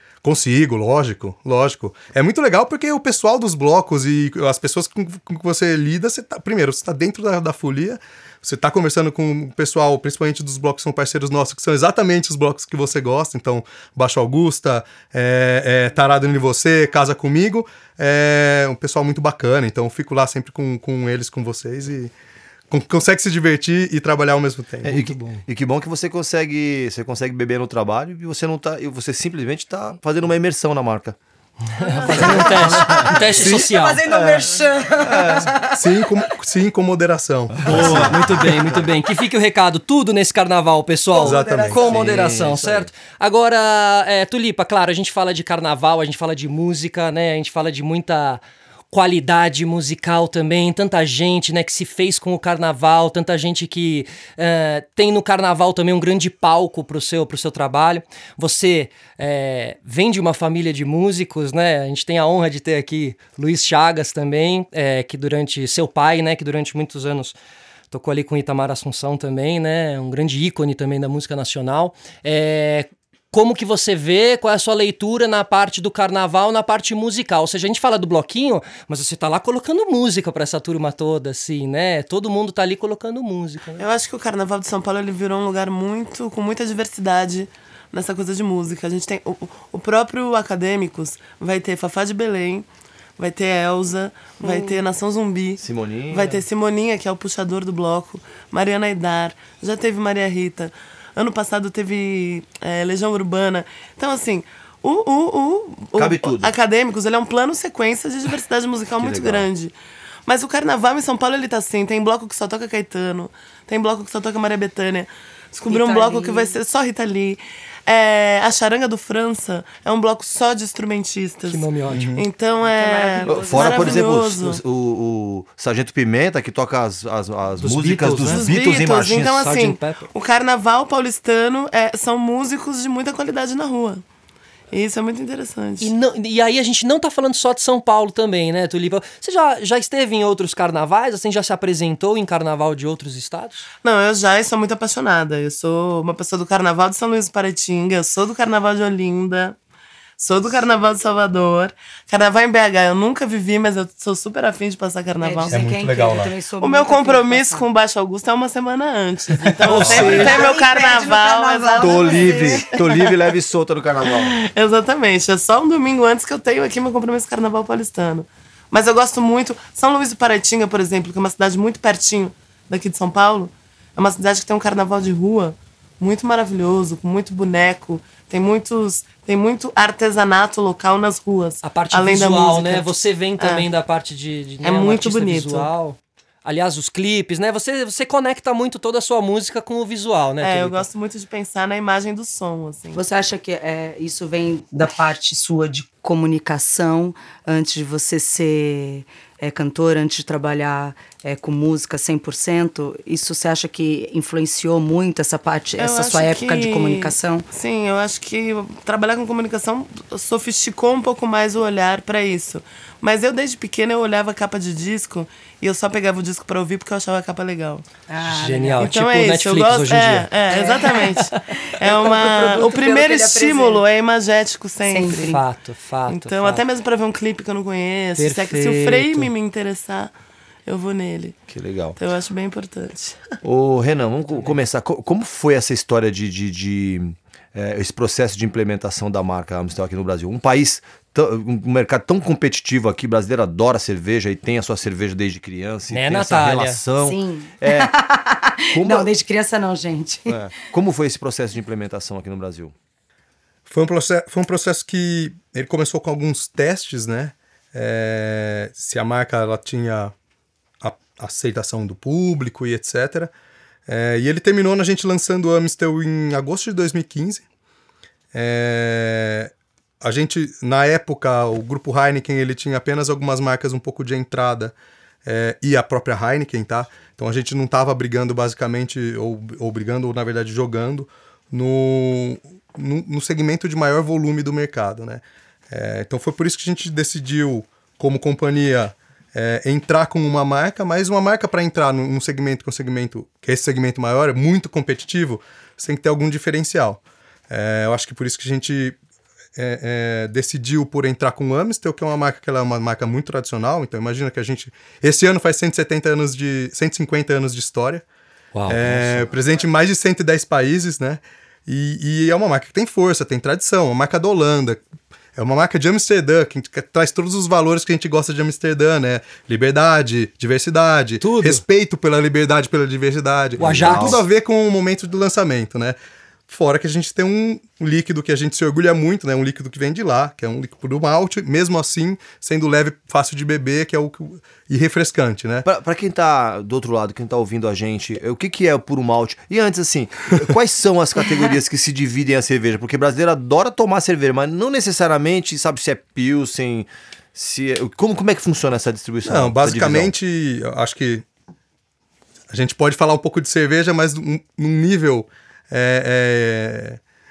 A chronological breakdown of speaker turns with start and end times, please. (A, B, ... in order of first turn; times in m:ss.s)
0:00.2-0:22.1 A
0:22.7-0:24.9 A
0:24.8-0:31.2 B
0:24.9-0:25.4 C
0:31.8-0:36.3 D
0:31.8-0:34.0 C
0:32.1-0:33.6 B
0:34.1-0:34.5 B
0:35.0-0:35.5 B
0:35.7-0:38.2 A
0:37.6-0:38.8 B
0:37.6-0:48.4 C
0:41.1-0:42.2 D
0:41.2-0:41.9 A
0:41.8-0:42.9 B
0:48.9-1:07.3 C
1:07.9-1:23.8 C
1:23.8-1:32.6 E
1:33.2-1:49.7 E
1:34.4-1:34.8 D
1:35.6-1:36.4 B
1:46.0-1:46.5 B
1:49.0-1:49.5 B
1:50.2-2:04.6 E
1:55.6-1:56.6 D
2:01.5-2:02.2 C
2:01.9-2:02.2 A
2:02.6-2:04.1 D
2:03.2-2:09.5 B
2:07.6-2:08.5 C
2:08.2-2:14.0 E
2:09.3-2:10.1 C
2:14.7-2:15.9 E
2:15.8-2:23.7 C
2:23.8-2:29.6 E
2:30.2-2:35.7 E
2:35.2-2:37.7 D
2:35.5-2:36.3 A
2:36.6-2:43.1 E
2:39.4-2:40.2 A
2:39.6-2:40.4 C
2:39.8-2:40.3 B
2:39.8-2:42.7 D
2:41.8-2:44.3 B
2:44.1-3:03.6 E
3:01.6-3:10.8 C
3:04.6-3:05.7 E
3:10.4-3:13.0 E
3:12.9-3:27.5 D
3:25.8-3:37.8 E
3:38.1-3:38.9 D
3:38.2-3:40.3 C
3:38.8-3:45.4 E
3:40.5-3:43.8 D
3:44.8-3:45.4 D
3:45.1-3:46.6 C
3:46.1-3:50.1 E
3:48.2-3:49.3 C
3:50.6-3:51.4 E
3:51.5-3:52.0 B
3:52.0-3:53.3 E
3:53.4-4:07.9 B
4:05.9-4:06.8 C
4:07.0-4:10.4 D
4:08.7-4:09.1 B
4:10.3-4:12.7 B
4:13.7-4:20.1 A
4:20.8-4:23.3 A
4:23.9-4:27.4 A
4:28.3-4:34.7 A
4:35.2-4:59.0 A
4:59.6-5:08.0 A
5:08.5-5:09.3 B
5:08.7-5:14.8 A
5:15.3-5:26.0 A
5:21.2-5:21.6 C
5:23.6-5:24.2 B
5:23.6-5:24.2 C
5:26.5-5:35.6 A
5:35.6-5:50.1 B
5:49.2-5:51.2 A
5:52.5-5:57.0 A